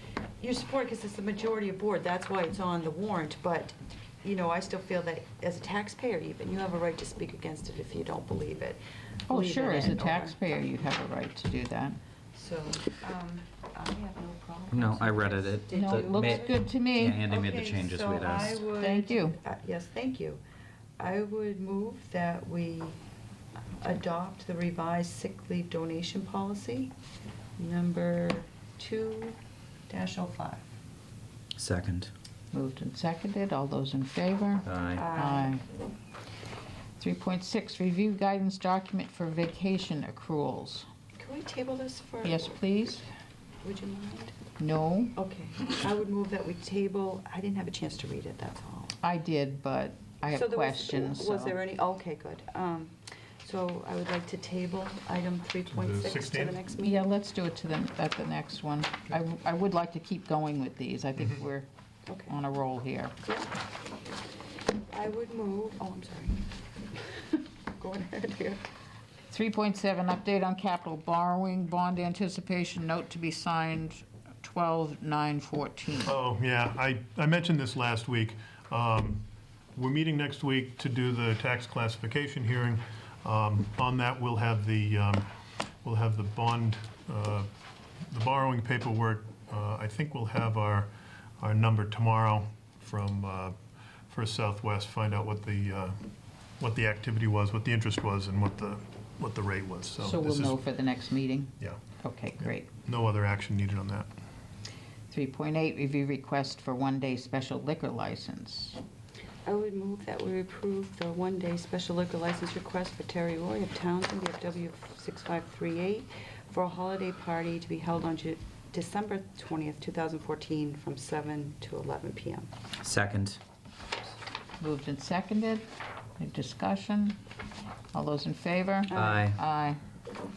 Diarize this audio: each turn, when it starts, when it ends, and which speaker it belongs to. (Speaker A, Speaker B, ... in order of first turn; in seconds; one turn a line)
Speaker A: 0.4-10.4
Speaker B: 9.3-12.0
Speaker A: 12.3-20.4
Speaker C: 14.7-18.7
Speaker B: 15.7-17.2
Speaker B: 18.8-19.4
Speaker A: 21.0-23.0
Speaker A: 23.8-26.9
Speaker A: 27.6-29.4
Speaker A: 29.9-30.6
Speaker C: 31.6-32.1
Speaker B: 32.5-35.6
Speaker C: 34.7-35.0
Speaker A: 35.0-35.5
Speaker B: 37.0-40.9
Speaker A: 41.2-42.6
Speaker B: 42.2-43.0
Speaker A: 43.6-44.3
Speaker B: 44.6-45.2
Speaker A: 45.1-49.0
Speaker B: 49.0-51.5
Speaker A: 50.3-57.0
Speaker D: 55.7-56.6
Speaker B: 56.8-61.7
Speaker A: 62.0-62.3
Speaker B: 62.3-63.1
Speaker A: 63.2-63.5
Speaker A: 64.9-68.6
Speaker B: 69.3-76.1
Speaker D: 76.0-87.5
Speaker D: 88.1-93.5
Speaker D: 94.1-96.0
Speaker D: 96.6-100.6
Speaker B: 100.0-102.7
Speaker D: 102.4-104.1
Speaker B: 105.1-108.8
Speaker A: 109.5-122.5
Speaker C: 122.8-123.4
Speaker B: 124.6-125.7
Speaker B: 126.2-127.2
Speaker B: 127.9-129.8
Speaker A: 128.9-129.3
Speaker C: 128.9-129.4